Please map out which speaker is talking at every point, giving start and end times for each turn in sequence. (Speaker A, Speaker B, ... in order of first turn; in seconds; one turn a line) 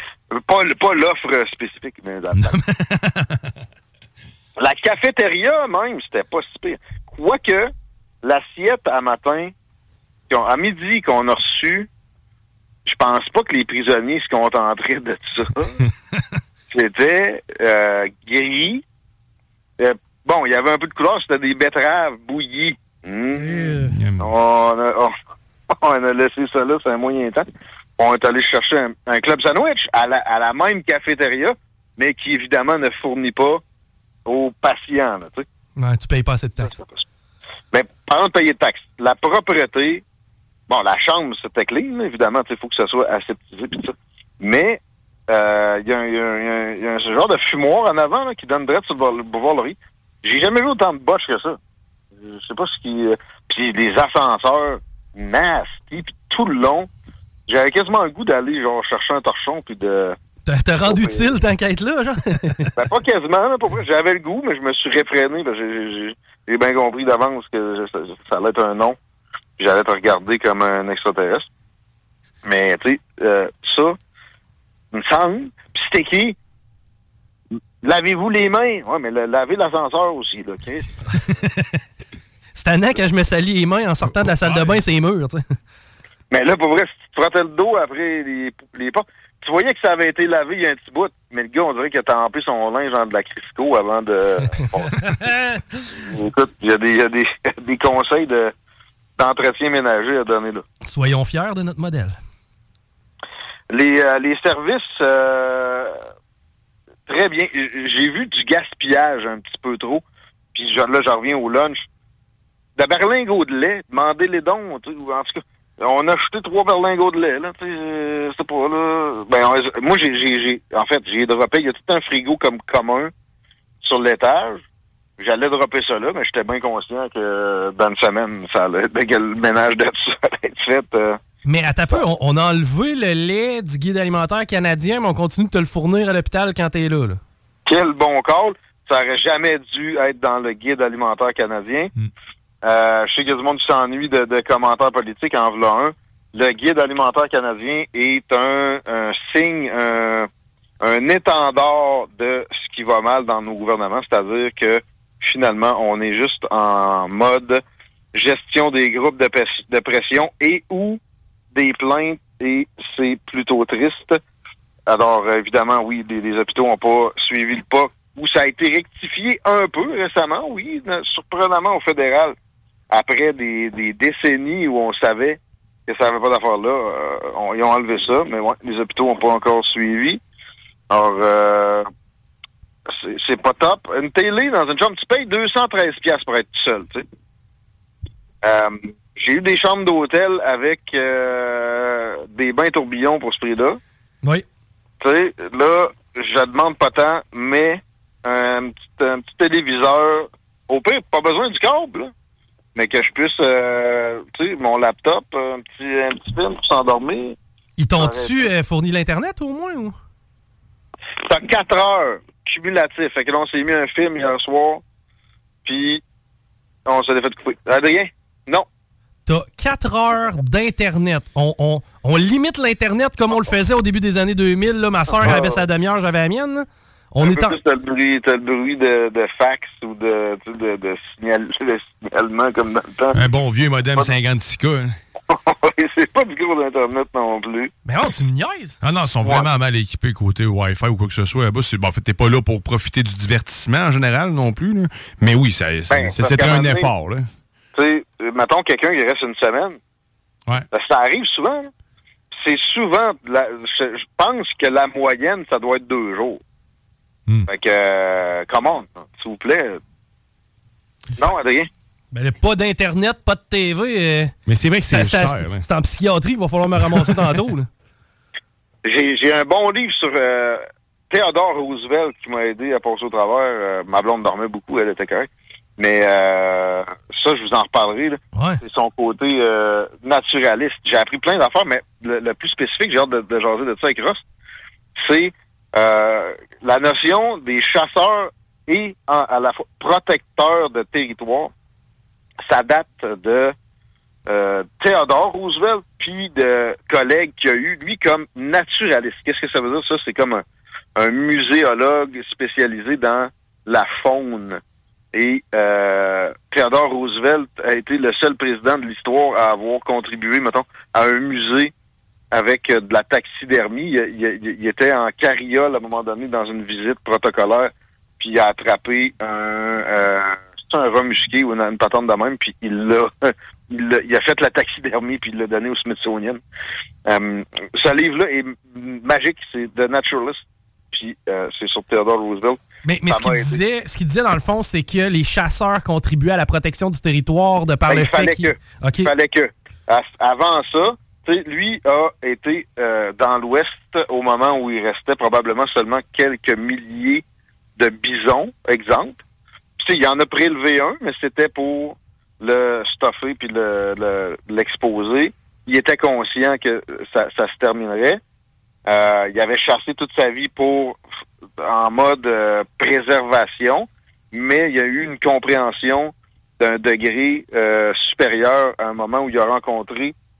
Speaker A: 0.3-2.6
Speaker B: 2.3-3.4
Speaker A: 4.6-7.7
Speaker A: 8.2-9.5
Speaker A: 10.3-11.9
Speaker A: 12.8-15.7
Speaker A: 16.7-18.8
Speaker A: 19.8-25.1
Speaker C: 23.4-23.9
Speaker B: 23.7-24.3
Speaker A: 25.7-27.4
Speaker A: 28.0-33.6
Speaker A: 34.2-35.5
Speaker C: 35.8-36.7
Speaker A: 36.6-37.0
Speaker A: 37.7-40.0
Speaker A: 40.7-51.6
Speaker A: 52.1-56.9
Speaker A: 57.5-60.2
Speaker C: 60.5-62.7
Speaker A: 60.8-61.3
Speaker A: 62.8-69.0
Speaker A: 69.6-71.5
Speaker A: 72.4-74.0
Speaker A: 74.9-76.3
Speaker A: 77.8-80.9
Speaker C: 82.5-85.4
Speaker B: 84.2-84.8
Speaker A: 86.3-95.2
Speaker C: 94.8-95.9
Speaker A: 96.0-98.5
Speaker A: 99.2-100.6
Speaker C: 100.8-102.2
Speaker A: 103.7-106.0
Speaker A: 107.1-110.0
Speaker A: 110.5-111.8
Speaker A: 112.8-123.1
Speaker A: 123.8-124.6
Speaker A: 125.2-131.2
Speaker C: 131.4-137.2
Speaker A: 137.7-141.9
Speaker A: 142.6-150.3
Speaker A: 150.8-157.6
Speaker A: 158.1-161.0
Speaker A: 161.5-164.2
Speaker A: 164.9-172.3
Speaker A: 172.9-180.2
Speaker A: 180.9-181.9
Speaker A: 182.9-187.0
Speaker A: 188.4-193.8
Speaker A: 195.0-202.1
Speaker A: 202.8-207.4
Speaker C: 207.8-209.9
Speaker A: 207.9-208.5
Speaker A: 211.2-214.8
Speaker A: 215.6-216.0
Speaker A: 216.8-218.7
Speaker C: 219.3-227.6
Speaker A: 225.2-225.6
Speaker A: 227.2-233.2
Speaker B: 233.1-234.9
Speaker A: 235.3-237.7
Speaker C: 237.8-238.8
Speaker B: 238.8-247.3
Speaker A: 245.9-246.9
Speaker A: 247.7-249.8
Speaker A: 250.7-251.7
Speaker A: 252.3-256.4
Speaker A: 257.5-259.8
Speaker A: 261.2-261.7
Speaker C: 262.1-267.7
Speaker B: 264.4-265.6
Speaker B: 266.9-267.2
Speaker A: 268.8-284.2
Speaker C: 278.3-278.6
Speaker A: 285.0-291.5
Speaker A: 292.4-293.5
Speaker A: 294.3-300.4
Speaker A: 301.0-304.6
Speaker A: 305.1-311.7
Speaker A: 312.3-326.4
Speaker A: 327.1-333.6
Speaker C: 332.8-339.1
Speaker A: 337.9-347.2
Speaker A: 347.8-349.2
Speaker A: 349.8-358.2
Speaker A: 358.9-361.0
Speaker A: 361.6-370.1